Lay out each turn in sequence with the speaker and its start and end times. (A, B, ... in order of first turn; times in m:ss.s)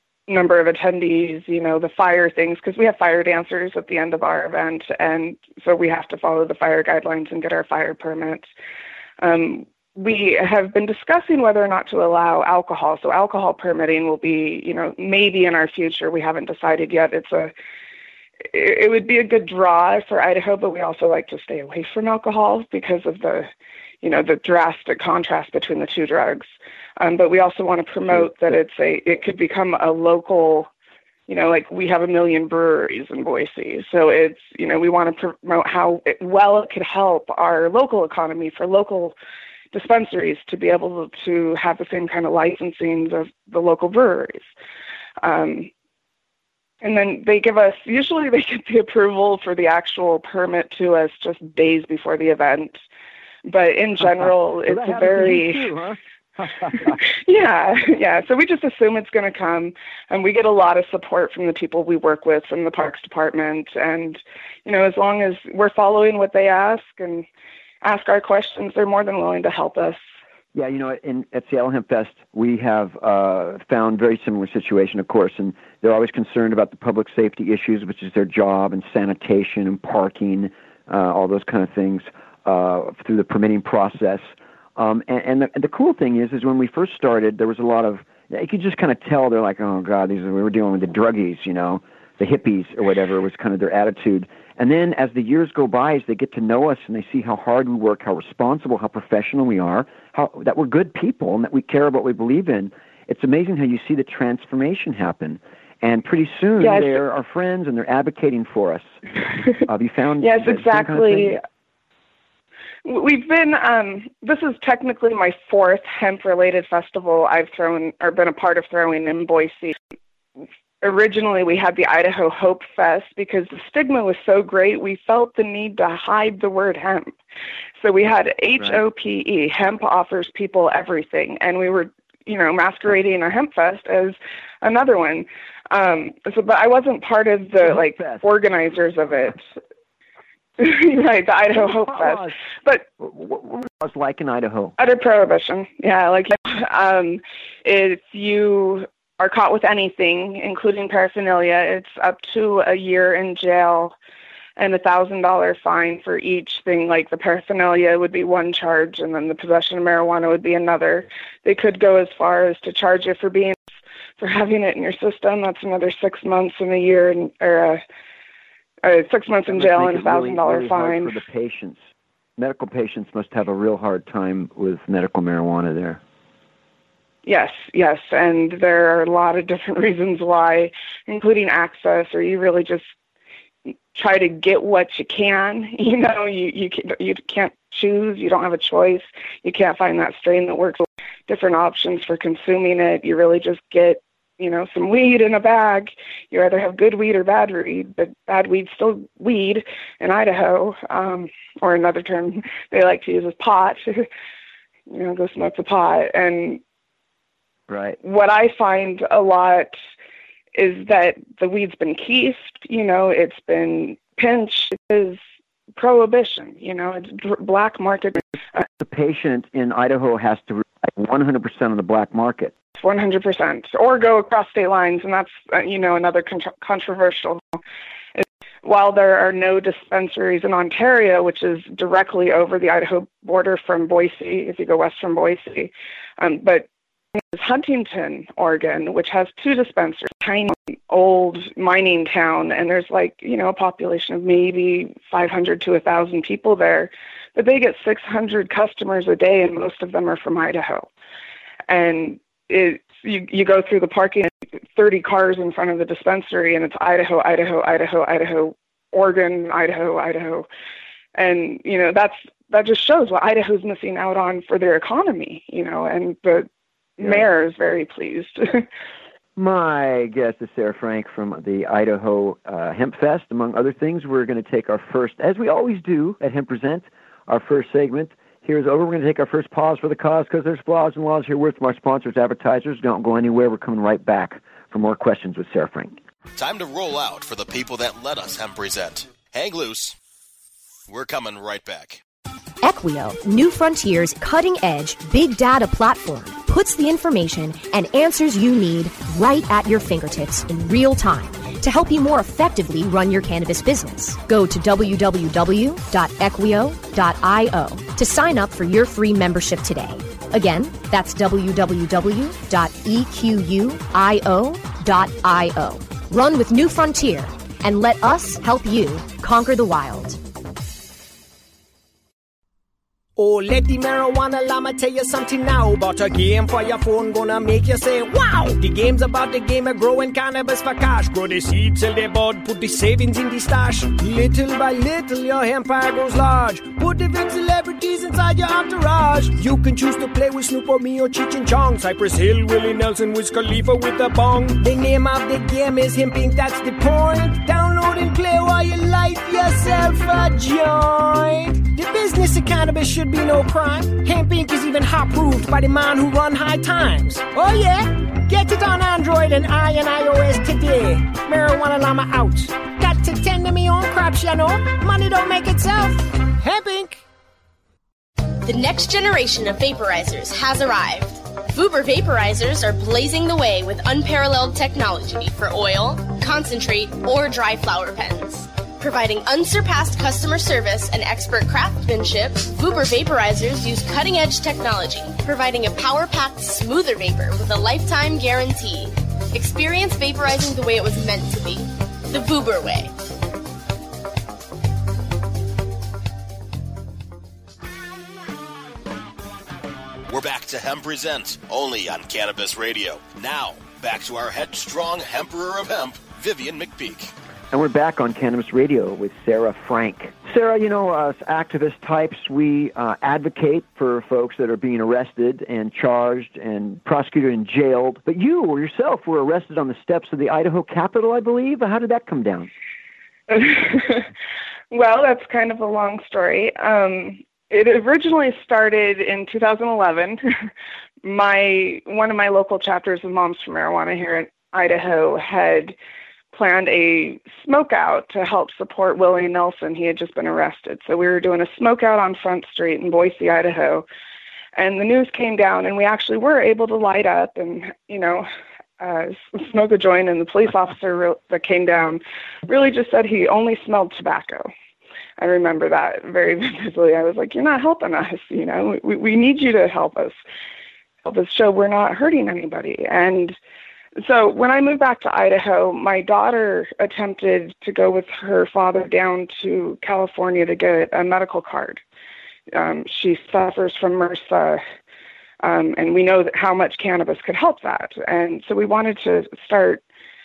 0:00.3-0:08.5 A
0:09.2-0:17.5 A
0:18.5-0:23.5 A
0:24.0-0:30.7 A
0:31.3-0:39.2 A
0:39.7-0:44.4 A
0:45.2-0:45.7 A
0:46.8-0:52.8 A
0:53.5-0:55.7 A
0:54.7-0:57.0 B
0:57.0-1:07.2 A
1:07.8-1:10.0 A
1:10.6-1:49.0 B
1:46.6-1:47.0 A
1:49.6-1:51.4 B
1:50.2-1:51.4 A
1:52.8-1:59.8 A
2:00.8-2:07.1 A
2:07.8-2:19.4 A
2:08.6-2:08.8 B
2:17.6-2:18.2 B
2:20.6-2:22.8 A
2:21.5-2:22.4 B
2:23.0-2:24.7 B
2:24.8-2:33.9 A
2:34.6-2:43.6 A
2:44.2-2:47.8 A
2:48.8-2:51.2 A
2:49.5-2:51.8 B
2:52.4-2:56.0 B
2:57.3-3:02.8 A
3:03.9-3:24.1 A
3:24.9-3:26.6 A
3:27.7-3:28.0 B
3:28.0-3:29.8 A
3:30.6-3:35.2 A
3:35.8-3:38.2 A
3:38.8-3:42.5 B
3:42.8-3:47.6 A
3:48.2-4:10.9 A
4:11.7-4:20.5 A
4:21.2-4:26.5 A
4:27.0-4:28.7 A
4:29.4-4:46.0 B
4:46.4-4:50.0 C
4:50.9-4:52.0 C
4:52.6-5:20.2 D
5:23.2-6:07.0 E
6:08.4-6:32.9 F
6:40.1-6:47.1 C
6:47.5-7:02.5 B
7:03.3-7:04.1 A
7:04.7-7:10.2 A
7:11.0-7:15.8 A
7:16.3-7:23.9 A
7:24.6-7:28.3 A
7:28.8-7:34.5 A
7:35.2-7:40.2 A
7:41.0-7:43.4 A
7:44.0-7:51.8 A
7:52.5-7:54.6 A
7:55.4-7:59.8 A